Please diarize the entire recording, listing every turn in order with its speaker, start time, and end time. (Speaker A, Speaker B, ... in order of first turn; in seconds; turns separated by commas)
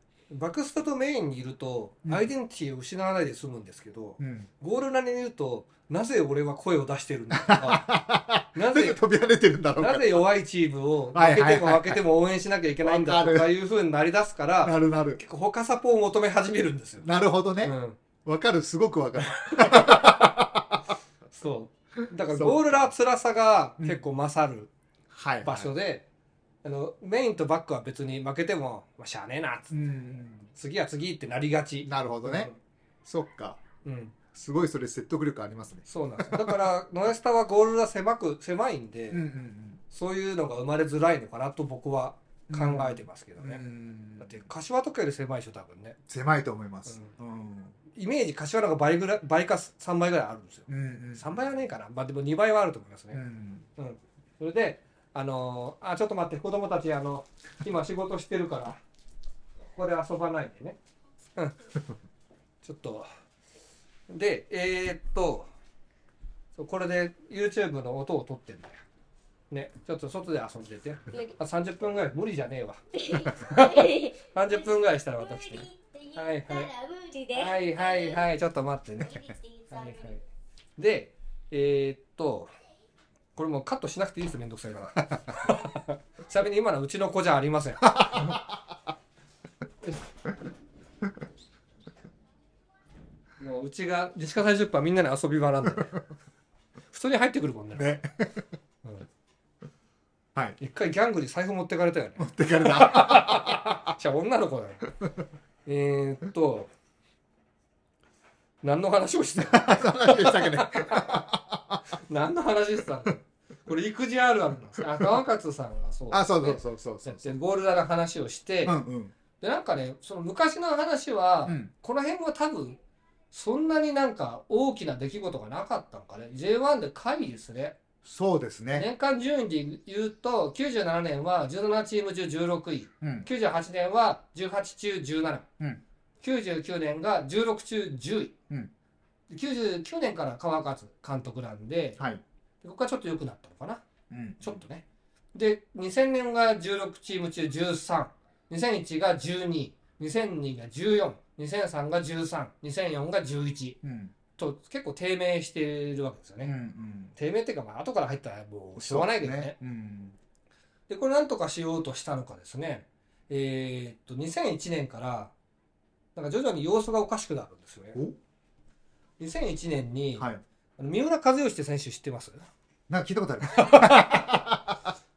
Speaker A: 0.3-7.9, Speaker B: 4.2-4.5, Speaker B: 7.3-10.2, Speaker A: 8.5-9.0, Speaker A: 9.8-17.1, Speaker B: 11.1-12.0, Speaker B: 12.8-13.5, Speaker B: 14.6-15.2, Speaker B: 17.0-20.8, Speaker A: 17.6-18.0, Speaker A: 19.2-20.3, Speaker A: 21.3-24.7, Speaker B: 22.3-22.9, Speaker B: 23.8-24.1, Speaker B: 25.1-25.7, Speaker A: 25.4-26.1, Speaker A: 26.6-29.8, Speaker B: 29.7-30.5, Speaker A: 30.5-32.6, Speaker B: 31.8-32.5, Speaker B: 33.0-33.6, Speaker A: 33.9-34.1, Speaker B: 34.3-36.6, Speaker A: 35.9-39.2, Speaker B: 39.1-39.8, Speaker A: 39.9-43.6, Speaker B: 42.5-44.5, Speaker A: 44.2-46.0, Speaker B: 46.1-47.8, Speaker A: 46.9-47.1, Speaker A: 47.9-53.2, Speaker B: 50.7-51.4, Speaker B: 53.1-53.7, Speaker A: 53.8-58.8, Speaker A: 59.8-60.8, Speaker A: 62.6-63.1, Speaker A: 64.1-65.5, Speaker A: 66.6-68.8, Speaker A: 69.5-76.7, Speaker C: 72.9-78.3, Speaker A: 77.3-80.2, Speaker C: 79.0-80.2, Speaker A: 80.8-82.5, Speaker A: 83.4-88.4, Speaker B: 87.8-88.6, Speaker A: 93.4-96.0, Speaker A: 96.9-98.0, Speaker B: 97.8-98.5, Speaker A: 100.6-104.9, Speaker B: 102.2-103.8, Speaker A: 105.6-106.7, Speaker A: 108.6-111.2, Speaker B: 109.5-111.8, Speaker A: 111.9-118.8, Speaker B: 116.1-117.4, Speaker B: 118.6-119.1, Speaker A: 119.4-122.8, Speaker B: 121.5-121.7, Speaker A: 123.3-127.8, Speaker B: 128.0-128.9, Speaker A: 128.7-135.4, Speaker B: 133.0-133.3, Speaker A: 136.2-138.3, Speaker A: 139.3-142.0, Speaker A: 142.6-143.8, Speaker B: 144.1-144.6, Speaker A: 144.4-153.8, Speaker B: 153.8-154.1, Speaker A: 154.4-156.6, Speaker B: 156.4-157.1, Speaker A: 157.2-159.6, Speaker B: 158.8-160.2, Speaker A: 160.9-165.3, Speaker A: 166.1-168.0, Speaker A: 169.2-170.3, Speaker B: 170.2-170.4, Speaker A: 170.8-172.4, Speaker B: 172.9-174.9, Speaker A: 173.4-174.3